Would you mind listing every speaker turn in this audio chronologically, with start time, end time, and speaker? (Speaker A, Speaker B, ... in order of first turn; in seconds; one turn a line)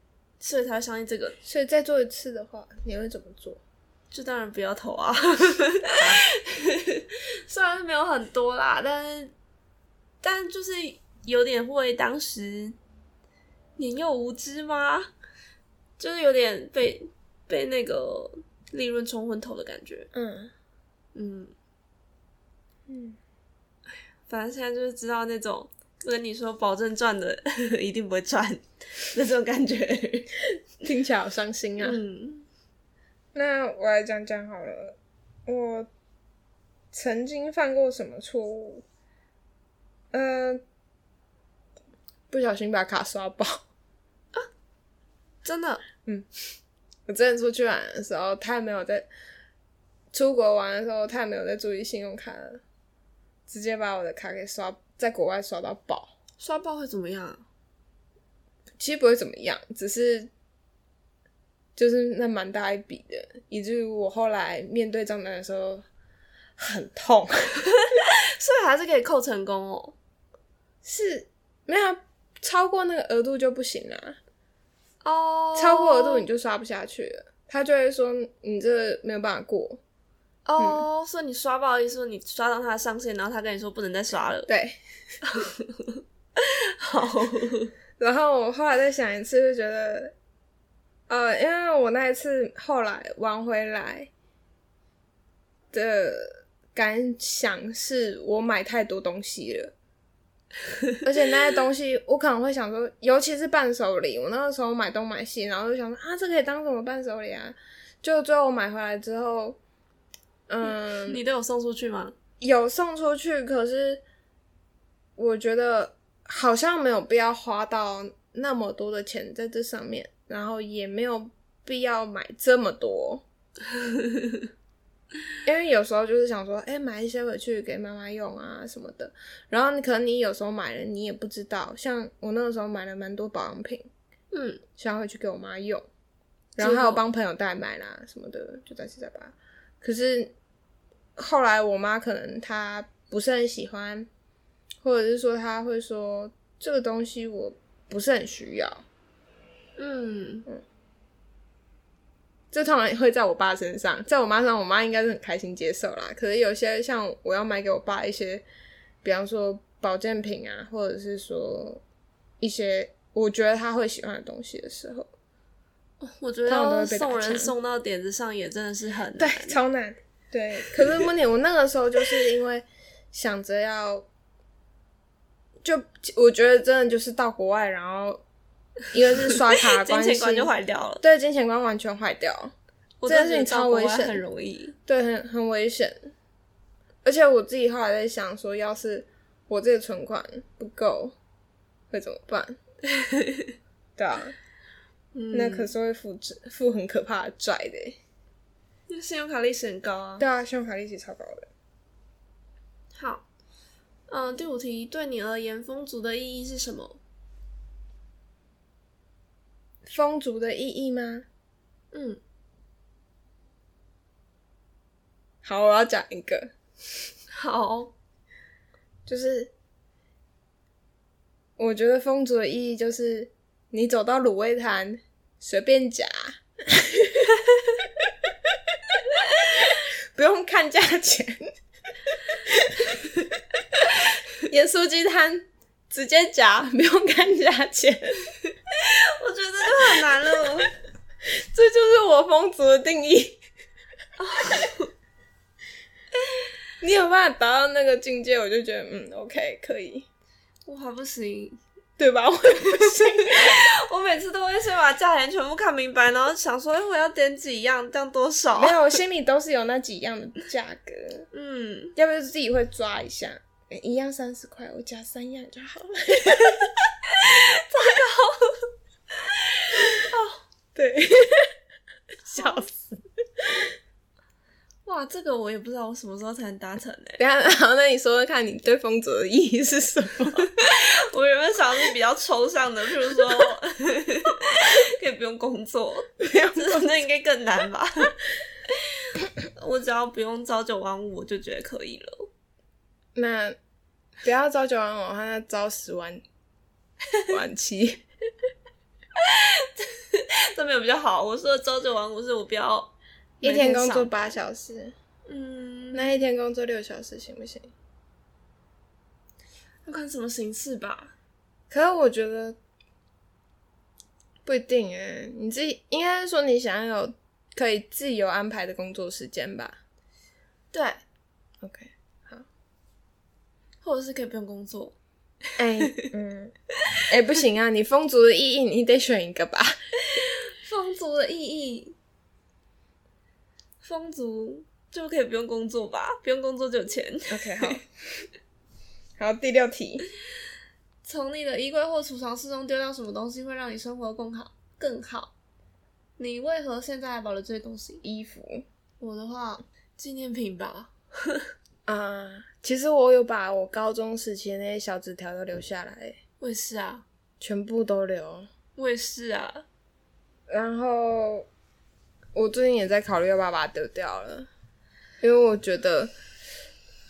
Speaker A: 0.4-1.4
Speaker B: 1.4-3.6
Speaker A: 4.1-9.3
Speaker B: 6.0-6.2
Speaker A: 10.2-12.8
Speaker A: 13.8-15.1
Speaker A: 16.0-20.1
Speaker B: 20.1-20.5
Speaker A: 21.1-21.5
Speaker B: 22.9-23.2
Speaker A: 24.3-30.3
Speaker B: 30.8-32.0
Speaker A: 31.8-32.5
Speaker B: 33.3-35.9
Speaker B: 36.9-38.9
Speaker B: 40.1-40.6
Speaker B: 42.3-43.6
Speaker A: 45.4-45.8
Speaker B: 47.1-49.1
Speaker B: 50.1-52.6
Speaker B: 53.5-56.1
Speaker A: 56.4-57.4
Speaker B: 58.8-60.3
Speaker B: 61.8-65.9
Speaker B: 66.6-67.5
Speaker A: 67.7-70.0
Speaker B: 70.8-74.2
Speaker A: 75.0-76.2
Speaker B: 75.6-79.8
Speaker A: 80.4-84.5
Speaker B: 80.6-80.8
Speaker B: 84.5-84.8
Speaker A: 85.2-87.7
Speaker B: 88.0-90.1
Speaker B: 91.1-94.1
Speaker B: 95.7-99.7
Speaker B: 101.0-109.6
Speaker B: 110.5-111.2
Speaker A: 110.7-112.1
Speaker B: 112.4-114.0
Speaker B: 115.2-123.2
Speaker A: 123.8-124.4
Speaker B: 125.4-133.9
Speaker A: 134.3-134.6
Speaker B: 134.8-135.9
Speaker B: 136.6-140.3
Speaker A: 136.6-137.0
Speaker B: 141.2-144.1
Speaker B: 144.8-148.8
Speaker A: 149.8-150.5
Speaker B: 152.5-158.4
Speaker B: 159.0-161.8
Speaker B: 162.4-165.1
Speaker A: 166.0-169.6
Speaker B: 166.5-167.5
Speaker B: 169.2-174.1
Speaker B: 175.6-178.2
Speaker B: 178.9-182.5
Speaker A: 179.2-181.0
Speaker A: 183.0-184.7
Speaker B: 183.1-184.2
Speaker B: 184.9-186.1
Speaker B: 187.0-191.2
Speaker B: 191.9-192.6
Speaker A: 192.9-193.5
Speaker B: 194.0-194.3
Speaker A: 195.1-195.7
Speaker B: 195.3-198.0
Speaker A: 198.9-200.2
Speaker B: 200.2-201.5
Speaker A: 202.9-203.2
Speaker A: 204.1-207.0
Speaker B: 209.9-211.2
Speaker A: 211.9-212.2
Speaker B: 215.4-216.5
Speaker A: 217.3-217.9
Speaker B: 219.1-219.5
Speaker B: 221.6-228.3
Speaker B: 228.9-231.6
Speaker B: 232.1-238.3
Speaker A: 238.7-240.7
Speaker B: 240.2-240.5
Speaker B: 241.3-243.4
Speaker A: 244.2-244.9
Speaker B: 246.8-250.1
Speaker A: 250.7-251.6
Speaker B: 252.0-253.6
Speaker A: 252.6-259.0
Speaker B: 258.6-261.3
Speaker A: 261.3-261.9
Speaker B: 261.9-266.7
Speaker A: 267.1-268.7
Speaker A: 269.6-270.4
Speaker B: 270.7-271.5
Speaker B: 272.3-273.7
Speaker A: 272.3-272.6
Speaker A: 274.9-277.2
Speaker B: 277.2-280.4
Speaker A: 280.4-288.1
Speaker B: 286.2-286.9
Speaker A: 288.8-292.3
Speaker B: 293.1-293.6
Speaker B: 294.2-296.2
Speaker B: 297.3-298.0
Speaker A: 299.1-304.3
Speaker B: 303.4-304.9
Speaker A: 305.3-306.1
Speaker B: 305.9-307.7
Speaker A: 309.9-311.1
Speaker B: 311.7-312.6
Speaker B: 314.4-319.8
Speaker A: 320.7-321.0
Speaker B: 321.6-322.5
Speaker A: 323.8-324.9
Speaker B: 325.6-326.5
Speaker A: 325.8-326.1
Speaker B: 327.1-329.8
Speaker A: 330.1-331.9
Speaker A: 333.8-337.8
Speaker B: 337.3-337.9
Speaker B: 339.2-340.0
Speaker A: 341.0-345.3
Speaker A: 346.2-348.0
Speaker B: 348.0-348.6
Speaker A: 349.0-351.5
Speaker B: 351.9-356.2
Speaker A: 356.4-357.1
Speaker B: 357.4-358.5
Speaker A: 358.8-359.6
Speaker B: 360.5-361.5
Speaker B: 362.3-364.5
Speaker B: 365.2-366.1